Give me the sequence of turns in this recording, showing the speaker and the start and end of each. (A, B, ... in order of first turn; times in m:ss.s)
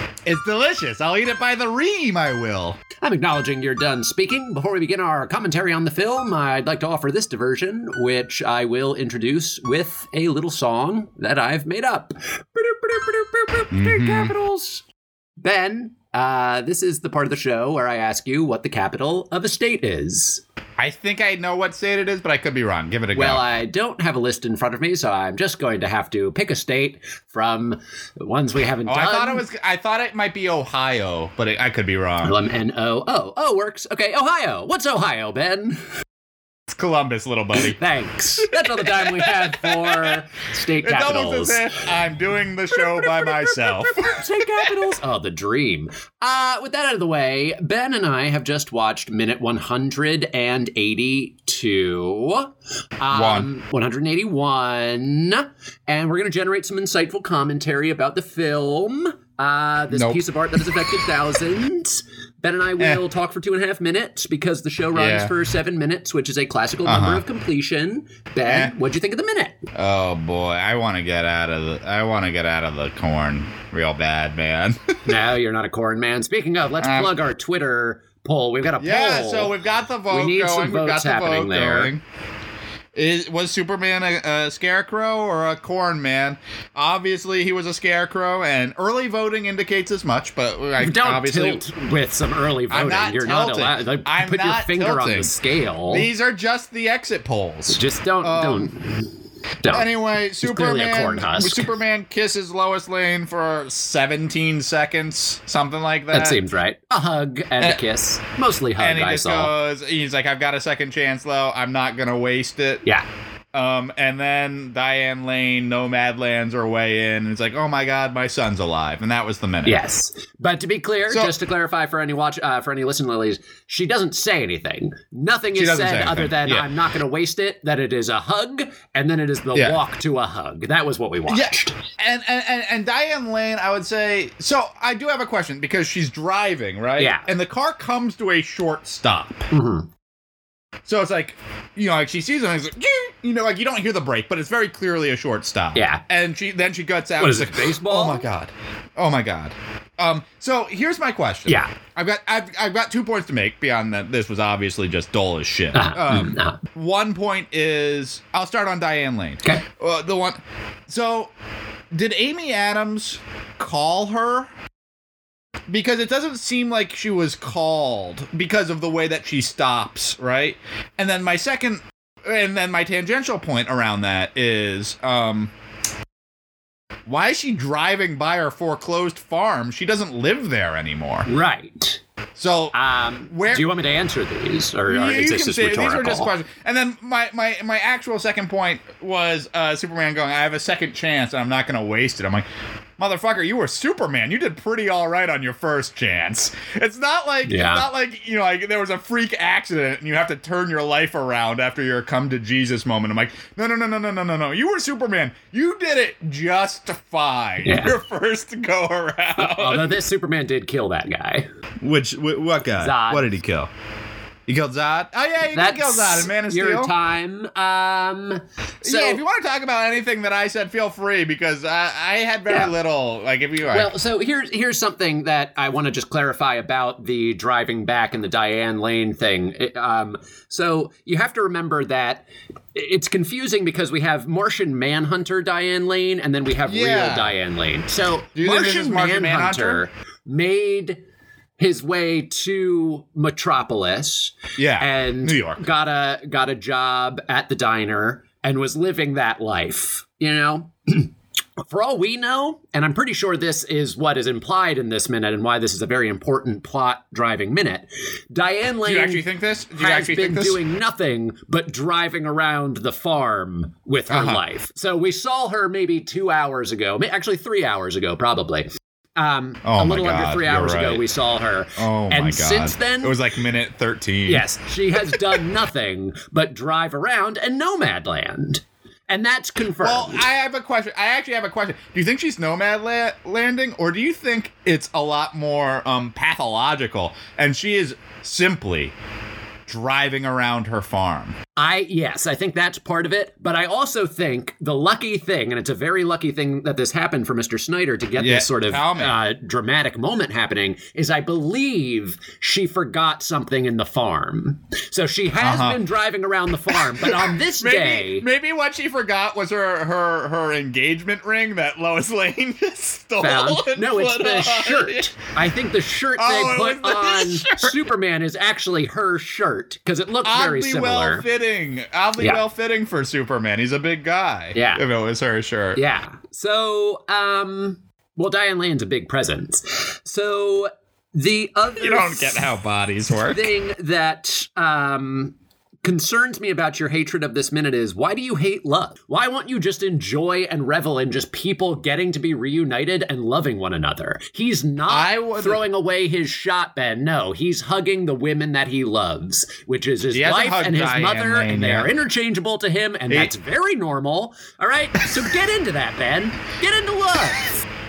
0:00.2-0:02.8 A
0:03.0-0:14.8 B
0:13.7-0:14.3 A
0:15.4-0:20.4 B
0:20.8-0:23.4 A
0:23.1-0:29.4 B
0:28.8-0:32.4 A
0:32.2-0:35.8 B
0:36.7-0:37.8 A
0:37.6-0:41.8 B
0:38.4-0:40.1 A
0:40.8-0:44.9 A
0:42.7-1:09.6 B
0:53.1-0:53.5 A
0:59.9-1:00.2 A
1:04.9-1:05.3 A
1:06.8-1:07.2 A
1:08.4-1:08.7 A
1:09.7-1:14.8 A
1:15.0-1:19.5 B
1:16.8-1:17.1 A
1:18.8-1:22.0 A
1:20.1-1:21.9 B
1:22.9-1:31.6 A
1:30.8-1:36.1 B
1:32.7-1:35.3 A
1:35.9-1:38.7 A
1:37.7-1:39.1 B
1:39.6-1:39.9 B
1:39.7-1:46.4 A
1:40.4-1:41.7 B
1:46.1-1:49.5 B
1:48.8-1:52.8 A
1:53.5-1:59.8 A
1:59.6-2:11.8 B
2:05.5-2:06.7 A
2:11.3-2:19.4 A
2:17.0-2:17.3 B
2:19.5-2:19.9 B
2:20.8-2:41.3 A
2:25.7-2:26.0 B
2:27.2-2:28.2 B
2:35.7-2:36.6 B
2:41.9-2:44.5 A
2:45.7-2:55.5 A
2:57.0-3:01.3 A
3:01.2-3:02.0 B
3:02.4-3:02.7 A
3:02.7-3:06.3 B
3:03.3-3:03.7 A
3:04.9-3:12.4 A
3:13.0-3:30.0 A
3:17.5-3:17.8 B
3:27.6-3:27.9 B
3:29.4-3:31.5 B
3:31.8-3:33.7 A
3:32.8-3:33.3 B
3:34.5-3:36.9 A
3:35.5-3:39.2 B
3:38.8-3:43.9 A
3:43.7-4:01.0 B
3:56.6-3:57.4 A
3:58.3-3:59.8 A
4:01.6-4:33.2 B
4:04.6-4:05.6 A
4:18.8-4:20.6 A
4:24.1-4:24.4 A
4:29.6-4:31.0 A
4:31.8-4:34.4 A
4:34.3-4:40.3 B
4:35.0-4:35.4 A
4:39.8-4:48.9 A
4:49.7-4:51.4 A
4:51.6-5:08.2 B
4:58.2-4:59.2 A
5:05.4-5:05.8 A
5:06.7-5:15.1 A
5:13.2-5:21.2 B
5:16.2-5:17.8 A
5:20.2-5:25.8 A
5:24.5-5:24.8 B
5:25.8-5:32.5 B
5:31.8-5:33.5 A
5:33.3-5:57.6 B
5:44.9-5:45.6 A
5:50.1-5:51.9 A